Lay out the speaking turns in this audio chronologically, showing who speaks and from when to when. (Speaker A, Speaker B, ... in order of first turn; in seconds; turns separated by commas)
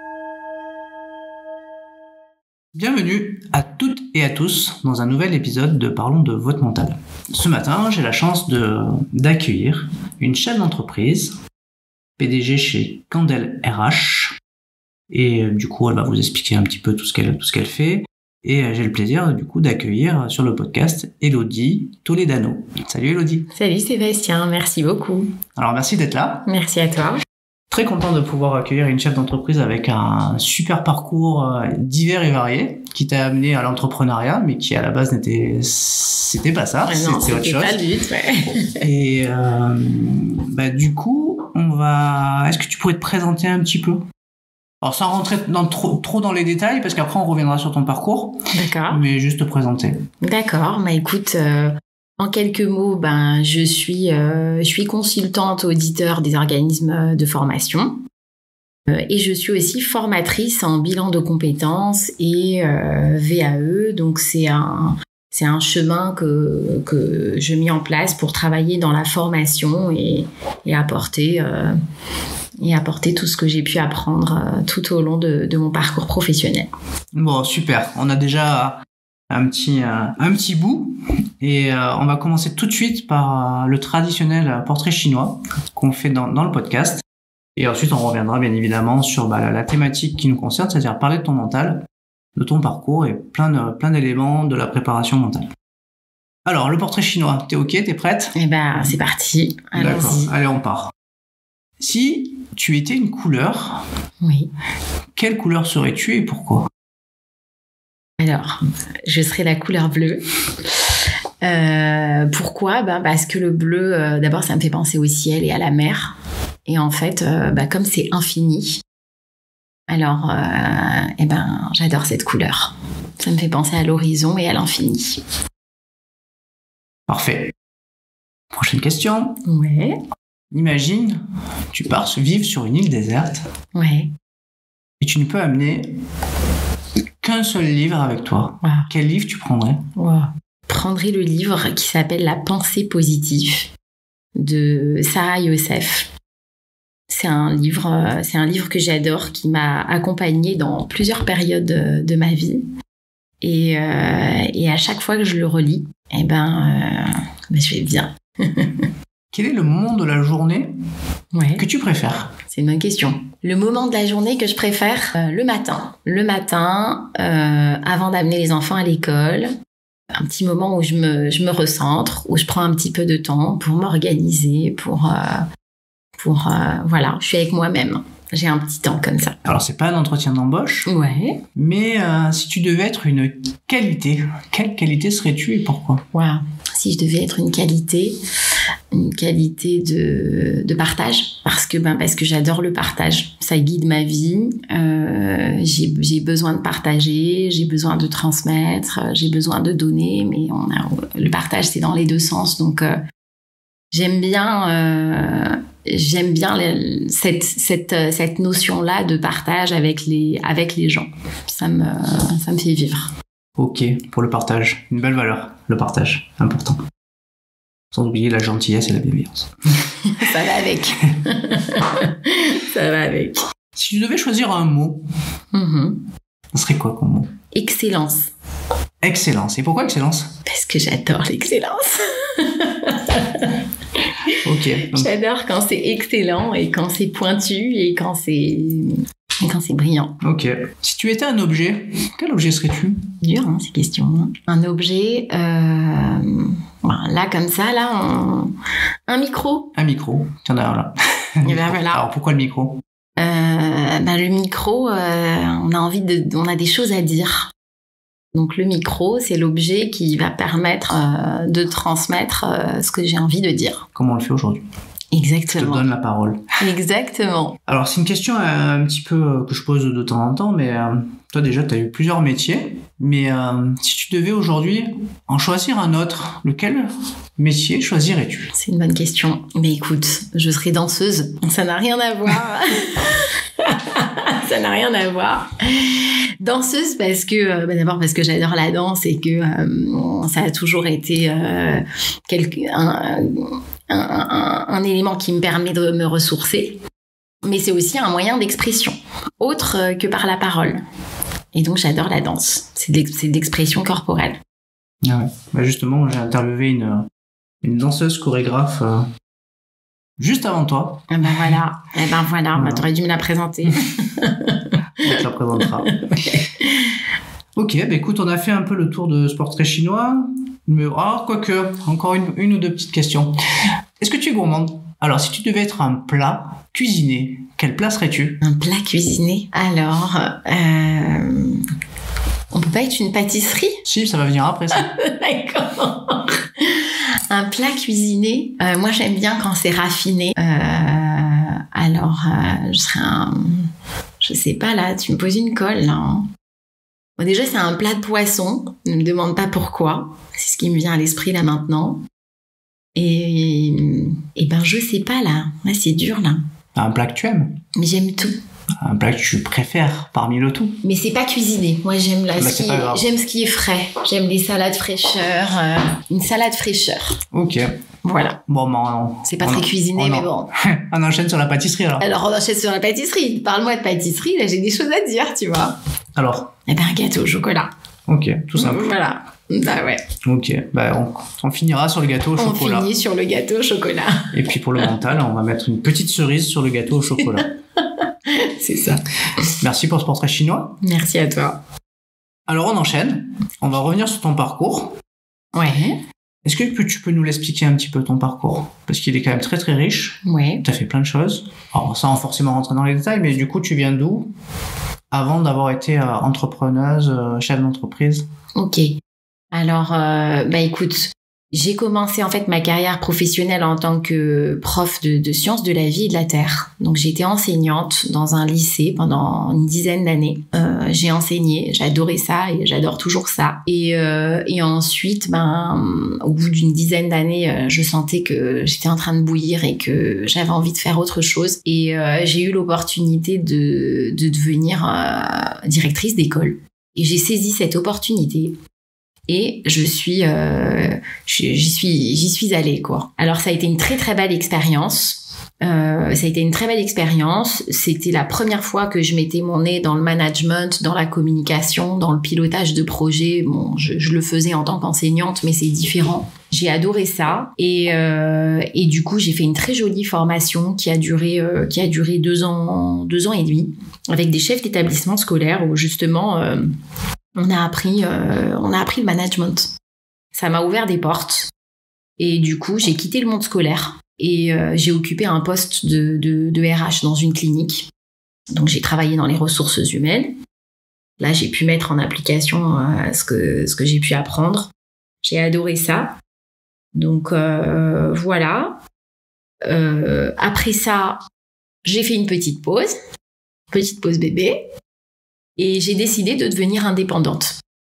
Speaker A: 2.7-11.4, Speaker A: 12.2-14.4, Speaker A: 15.1-23.5, Speaker B: 23.5-25.4, Speaker A: 25.6-26.5, Speaker B: 26.4-27.2, Speaker A: 27.7-37.8, Speaker B: 36.9-38.9, Speaker A: 38.8-44.0, Speaker A: 44.8-50.0, Speaker B: 48.5-49.0, Speaker B: 50.2-58.0, Speaker B: 58.9-71.8, Speaker B: 72.6-76.7, Speaker A: 77.2-87.0, Speaker A: 87.6-95.5, Speaker A: 96.5-98.3, Speaker B: 98.3-100.3, Speaker A: 99.7-100.9, Speaker A: 101.8-103.8, Speaker B: 104.2-104.5, Speaker A: 105.2-106.7, Speaker B: 108.2-110.2, Speaker B: 111.4-116.2, Speaker B: 116.7-118.8, Speaker B: 119.9-125.2, Speaker A: 127.1-127.5, Speaker A: 128.5-129.4, Speaker B: 129.5-130.0, Speaker A: 130.5-133.4, Speaker B: 133.8-134.1, Speaker A: 135.0-135.9, Speaker A: 137.2-139.8, Speaker B: 138.6-138.9, Speaker B: 140.0-143.7, Speaker B: 144.4-146.1, Speaker B: 147.1-152.7, Speaker B: 153.4-158.9, Speaker A: 159.3-160.7, Speaker B: 161.3-161.7, Speaker A: 161.6-162.3, Speaker B: 162.5-169.5, Speaker B: 170.1-175.4, Speaker B: 176.2-179.4, Speaker A: 179.4-180.9, Speaker B: 180.9-181.4, Speaker A: 181.6-186.0, Speaker B: 186.1-188.2, Speaker B: 188.9-203.0, Speaker B: 203.9-213.1, Speaker A: 213.6-216.8, Speaker A: 217.9-219.5, Speaker B: 220.0-223.4, Speaker A: 223.8-225.1, Speaker B: 225.5-226.0, Speaker A: 226.5-227.3, Speaker B: 227.5-228.3, Speaker A: 229.0-230.3, Speaker B: 230.5-233.6, Speaker B: 234.2-240.2, Speaker A: 234.4-235.1, Speaker A: 240.2-243.1, Speaker B: 243.2-248.5, Speaker B: 249.1-249.7, Speaker A: 249.8-252.8, Speaker B: 251.4-252.1, Speaker B: 253.2-257.5, Speaker B: 258.3-263.9, Speaker A: 263.9-264.6, Speaker B: 265.1-265.9, Speaker A: 265.5-266.5, Speaker B: 266.6-267.6, Speaker A: 267.7-278.5, Speaker B: 278.6-296.8, Speaker B: 297.4-300.8, Speaker B: 301.5-304.4, Speaker A: 305.0-307.1, Speaker A: 307.6-309.1, Speaker A: 310.2-311.5, Speaker B: 311.1-317.0, Speaker A: 312.5-312.9, Speaker A: 315.0-315.9, Speaker A: 317.6-323.4, Speaker A: 324.0-328.4, Speaker B: 328.4-331.6, Speaker B: 332.5-333.8, Speaker A: 333.9-334.9, Speaker B: 334.7-343.7, Speaker B: 344.2-346.3, Speaker B: 347.2-352.0, Speaker B: 353.0-356.4, Speaker A: 356.8-357.6, Speaker B: 357.8-358.4, Speaker A: 358.8-360.8, Speaker B: 360.8-367.2, Speaker A: 362.4-363.0, Speaker A: 367.3-367.7, Speaker B: 368.0-368.4, Speaker A: 368.5-372.1, Speaker B: 369.2-370.5, Speaker B: 372.0-375.8, Speaker A: 376.2-376.5, Speaker B: 376.7-377.7, Speaker A: 378.1-378.9, Speaker B: 378.6-380.0, Speaker A: 380.2-382.9, Speaker B: 382.4-384.9, Speaker A: 384.3-387.5, Speaker B: 388.3-389.5, Speaker A: 389.6-390.8, Speaker B: 390.8-391.6, Speaker A: 392.5-395.0, Speaker B: 395.5-396.0, Speaker A: 396.4-404.3, Speaker B: 400.2-400.6, Speaker A: 405.1-408.3, Speaker B: 408.6-408.9, Speaker B: 409.5-438.6, Speaker B: 439.3-466.7, Speaker B: 467.4-469.7, Speaker B: 470.3-471.5, Speaker B: 472.2-477.9, Speaker B: 478.5-480.3, Speaker B: 481.2-484.7, Speaker B: 485.2-486.2, Speaker B: 486.9-488.8, Speaker B: 489.6-491.2, Speaker B: 491.9-492.9, Speaker B: 493.7-494.6, Speaker B: 495.6-497.6